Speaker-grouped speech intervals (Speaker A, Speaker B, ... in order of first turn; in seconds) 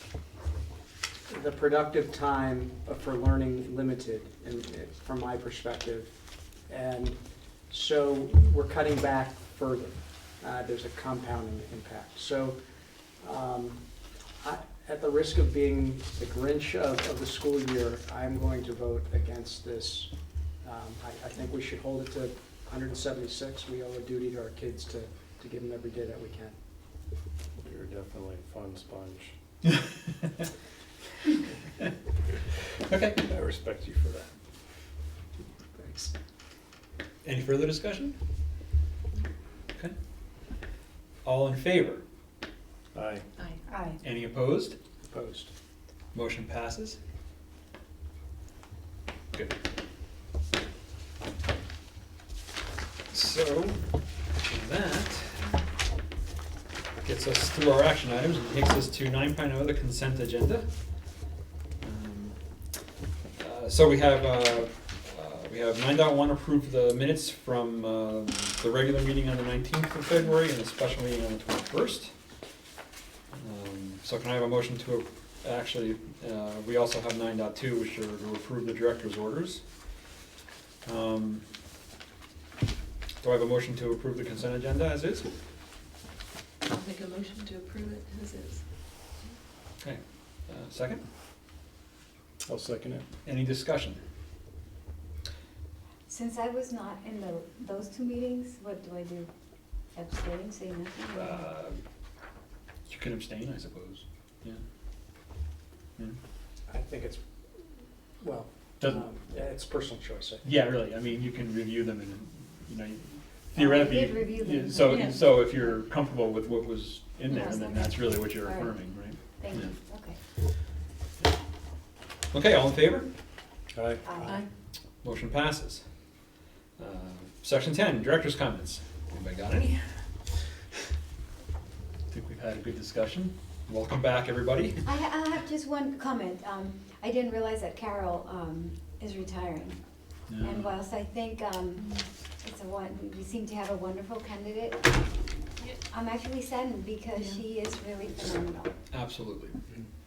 Speaker A: 1.3-12.6, 13.2-26.6, 35.7-36.1, 45.0-45.5, 106.7-107.2, 108.2-110.5
Speaker B: 27.6-29.3, 33.2-34.3, 42.9-43.3, 92.4-93.0, 123.7-124.3
Speaker C: 32.9-33.2, 37.2-38.2, 41.2-42.0, 44.0-44.8, 46.1-47.0, 53.1-53.9, 54.4-55.5, 57.0-60.7, 61.8-62.4, 63.4-72.1, 73.3-79.7, 80.8-81.5, 83.2-85.3, 89.8-91.0, 93.2-94.0, 101.1-101.8, 102.9-104.6, 108.8-109.0, 110.4-119.8, 122.3-123.1, 125.0-125.9, 126.8-130.5, 132.1-134.9, 140.3-140.8, 148.9-149.6
Speaker D: 43.7-44.0, 96.1-99.3, 99.9-101.5, 113.5-115.8, 117.3-118.8, 119.3-120.2, 124.0-124.4, 134.8-139.8, 140.4-144.9, 145.9-148.8
Speaker E: 86.6-88.6, 114.9-115.2, 147.2-147.4